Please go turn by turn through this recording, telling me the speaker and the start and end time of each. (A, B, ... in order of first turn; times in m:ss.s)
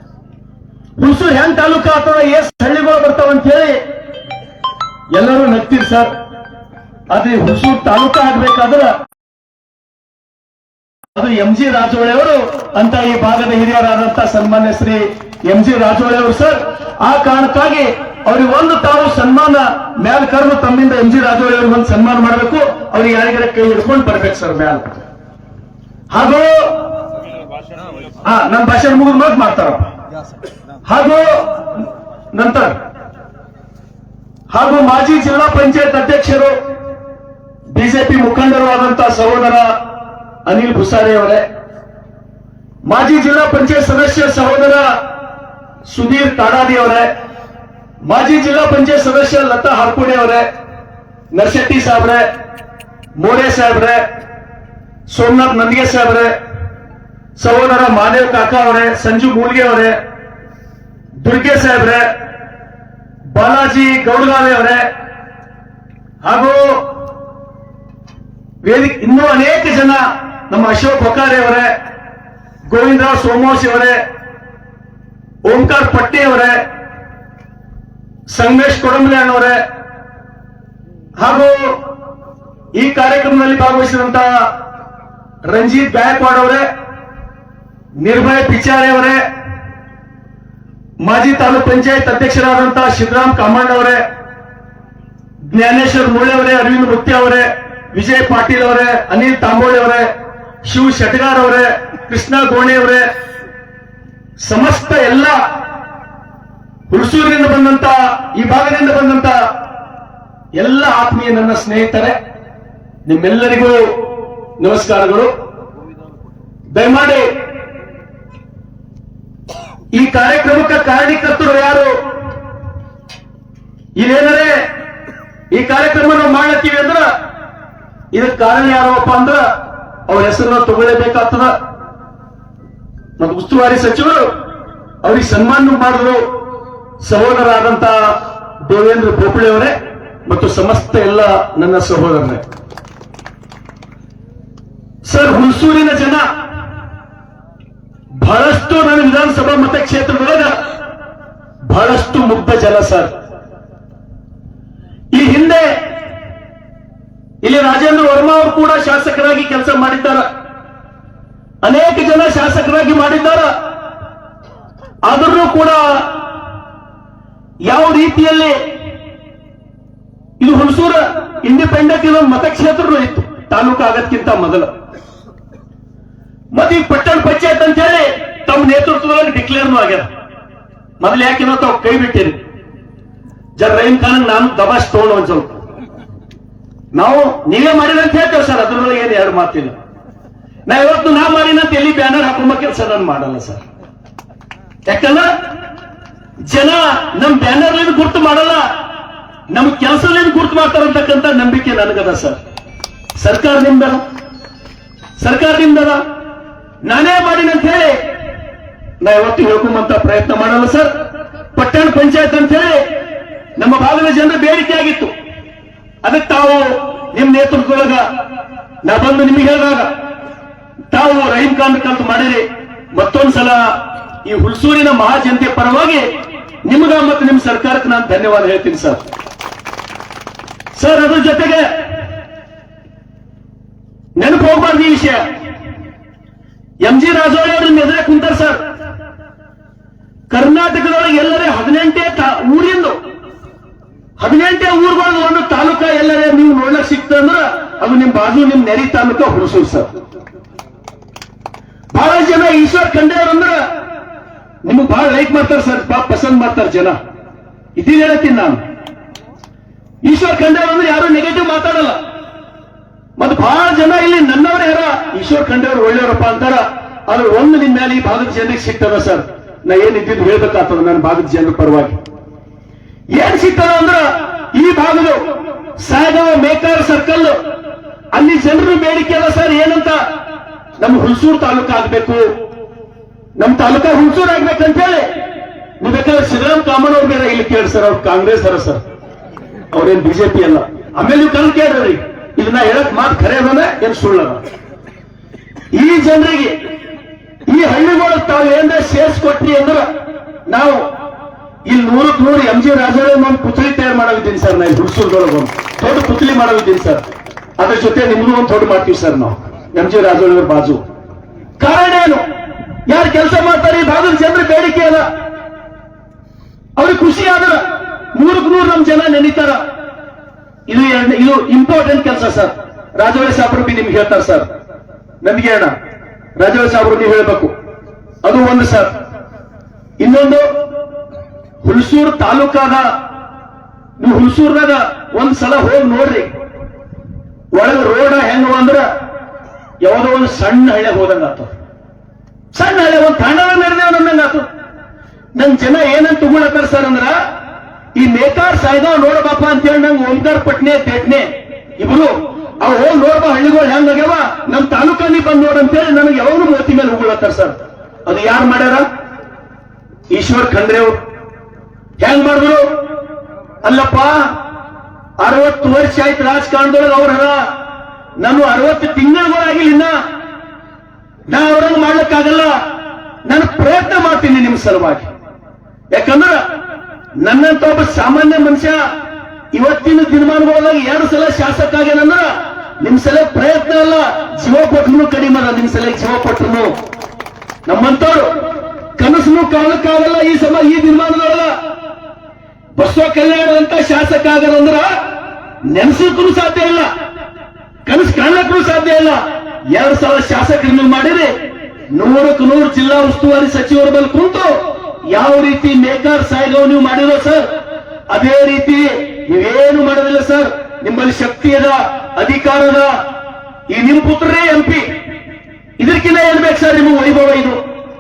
0:01.0-0:03.8 A
0:05.1-0:06.1 A
0:07.1-0:09.0 A
0:11.1-0:24.9 A
0:26.1-0:26.8 A
0:28.2-0:29.9 A
0:30.8-0:31.4 A
0:32.3-0:32.8 A
0:34.5-0:36.6 A
0:37.7-0:39.8 A
0:40.4-0:41.4 A
0:42.8-0:45.0 A
0:45.8-0:47.1 A
0:48.0-0:50.5 A
0:51.3-0:52.3 A
0:53.2-0:54.0 A
0:55.1-0:56.4 A
0:57.4-1:00.0 A
1:01.1-1:02.1 A
1:03.3-1:04.9 A
1:06.2-1:06.8 A
1:08.6-1:11.8 A
1:12.7-1:14.0 A
1:15.4-1:16.6 A
1:18.3-1:19.6 A
1:21.2-1:21.8 A
1:22.8-1:24.5 A
1:25.5-1:26.7 A
1:28.0-1:29.2 A
1:31.0-1:34.0 A
1:35.4-1:40.1 A
1:40.6-1:43.1 A
1:44.4-1:45.4 A
1:46.9-1:49.4 A
1:50.6-1:52.2 A
1:53.1-1:53.9 A
1:54.6-1:55.3 A
1:56.7-1:57.3 A
1:59.9-2:02.0 A
2:04.0-2:04.6 A
2:05.5-2:07.1 A
2:08.1-2:09.4 A
2:10.1-2:11.5 A
2:13.2-2:14.3 A
2:15.0-2:16.2 A
2:17.0-2:22.4 A
2:25.1-2:26.2 A
2:28.2-2:30.6 A
2:31.6-2:33.1 A
2:35.1-2:35.8 A
2:37.4-2:40.2 A
2:41.6-2:43.6 A
2:45.0-2:46.3 A
2:47.6-2:48.6 A
2:50.4-2:54.7 A
2:56.5-3:00.1 A
3:01.0-3:02.4 A
3:03.6-3:05.6 A
3:06.9-3:09.8 A
3:10.7-3:13.6 A
3:14.9-3:15.3 A
3:16.4-3:18.7 A
3:19.5-3:22.4 A
3:23.2-3:24.0 A
3:25.2-3:26.0 A
3:26.8-3:28.0 A
3:29.0-3:30.9 A
3:31.6-3:32.9 A
3:33.6-3:35.1 A
3:36.0-3:38.1 A
3:38.8-3:39.9 A
3:40.9-3:46.1 A
3:46.6-3:49.0 A
3:50.8-3:51.9 A
3:54.2-3:55.3 A
3:56.8-3:58.6 A
4:00.3-4:03.0 A
4:04.2-4:09.9 A
4:11.9-4:13.6 A
4:14.6-4:17.0 A
4:17.8-4:18.6 A
4:20.0-4:22.0 A
4:23.2-4:32.0 A
4:33.1-4:35.2 A
4:35.8-4:37.4 A
4:38.1-4:40.0 A
4:40.8-4:42.3 A
4:43.4-4:45.1 A
4:45.8-4:48.8 A
4:49.7-4:54.4 A
4:55.7-4:56.6 A
4:57.5-4:59.9 A
5:00.5-5:00.9 A
5:01.6-5:07.0 A
5:07.6-5:10.8 A
5:11.6-5:12.2 A
5:12.9-5:15.1 A
5:16.8-5:19.6 A
5:20.7-5:24.5 A
5:25.2-5:25.7 A
5:26.4-5:27.5 A
5:28.2-5:28.9 A
5:30.0-5:30.5 A
5:31.6-5:32.9 A
5:34.0-5:36.3 A
5:37.5-5:38.9 A
5:39.8-5:41.5 A
5:42.5-5:44.5 A
5:45.4-5:47.2 A
5:48.0-5:58.9 A
6:00.1-6:01.0 A
6:02.0-6:02.7 A
6:03.6-6:04.4 A
6:05.2-6:07.5 A
6:08.2-6:09.9 A
6:11.3-6:12.6 A
6:13.2-6:15.1 A
6:15.9-6:16.4 A
6:17.2-6:18.8 A
6:19.5-6:26.7 A
6:27.6-6:28.4 A
6:29.0-6:31.5 A
6:32.8-6:35.0 A
6:35.6-6:36.9 A
6:37.9-6:41.3 A
6:41.9-6:47.5 A
6:48.1-6:53.0 A
6:53.7-6:54.9 A
6:55.8-6:57.6 A